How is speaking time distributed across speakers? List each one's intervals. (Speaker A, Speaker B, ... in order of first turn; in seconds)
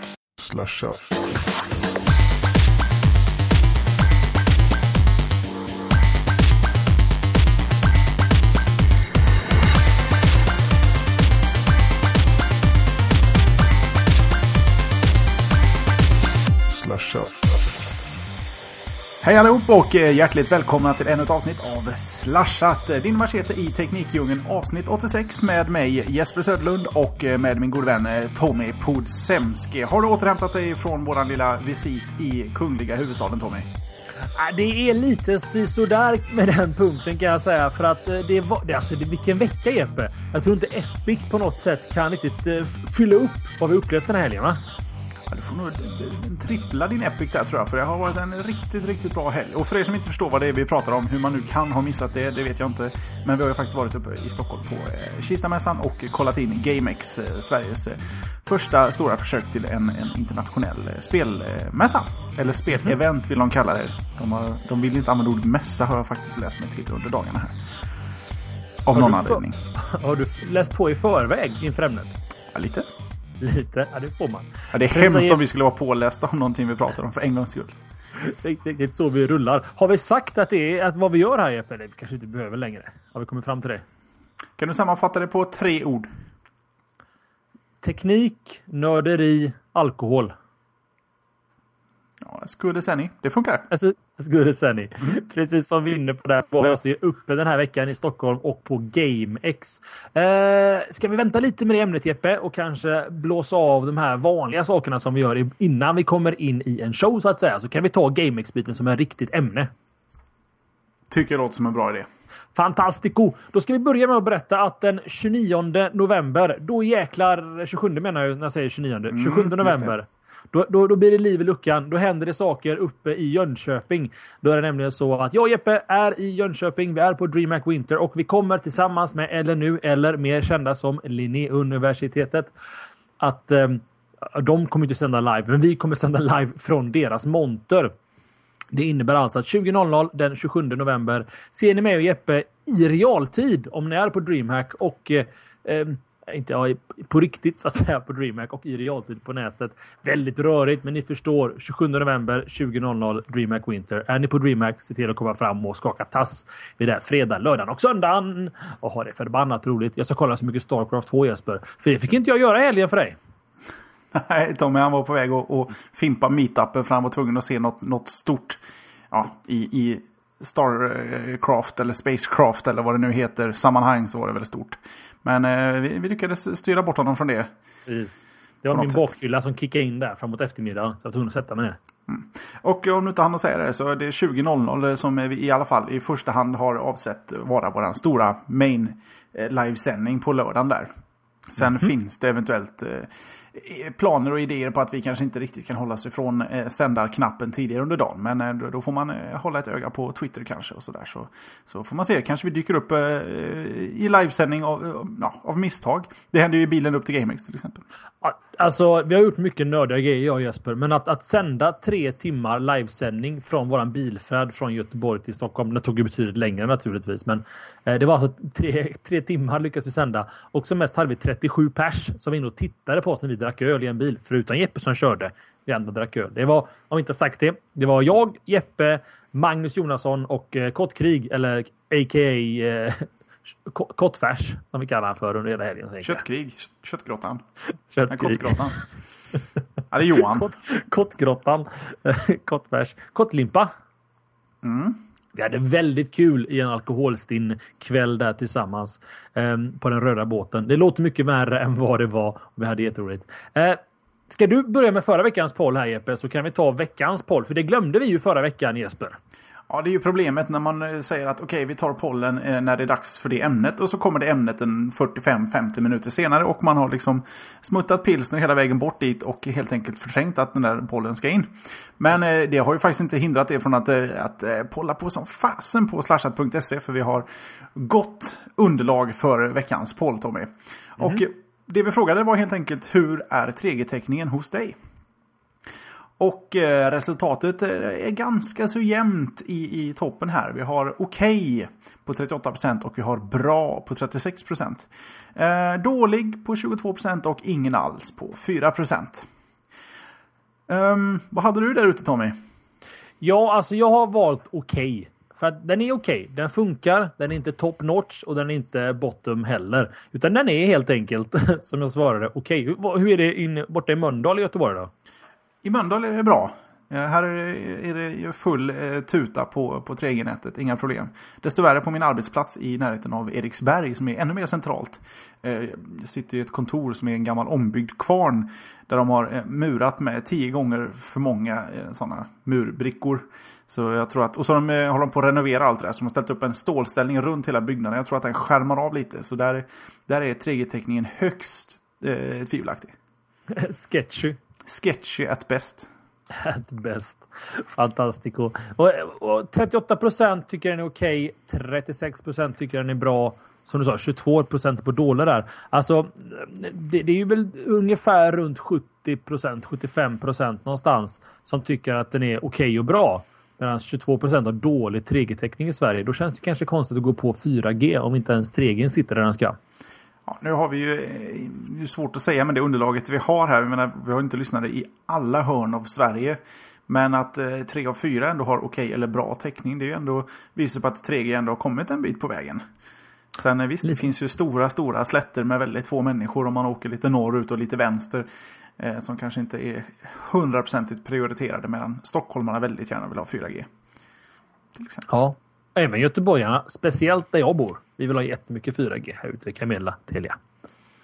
Speaker A: 0.4-1.4, 16.6-17.8
Speaker B: 19.2-33.7, 45.3-67.6, 68.8-69.6, 72.5-72.9, 74.7-77.8, 84.6-86.1, 92.2-93.7, 111.1-112.1, 119.1-119.9, 164.1-168.6, 169.1-177.5, 178.7-179.1, 182.1-190.9, 191.5-207.8, 236.0-237.4, 238.1-238.8, 239.9-240.5, 244.6-245.0, 259.7-284.8, 286.2-299.3, 300.7-302.4, 315.6-342.9, 344.7-345.9, 370.3-382.6, 383.4-388.3, 388.8-393.7, 394.8-395.1
Speaker C: 34.3-44.6, 68.9-72.2, 73.4-75.4, 78.2-83.8, 87.8-90.3, 93.7-109.7, 112.5-132.5, 133.2-137.9, 138.7-163.2, 177.9-181.8, 208.2-233.1, 233.7-236.2, 237.9-238.8, 240.2-243.7, 245.3-259.2, 303.2-314.9, 343.5-344.4, 346.3-369.6, 395.1-400.4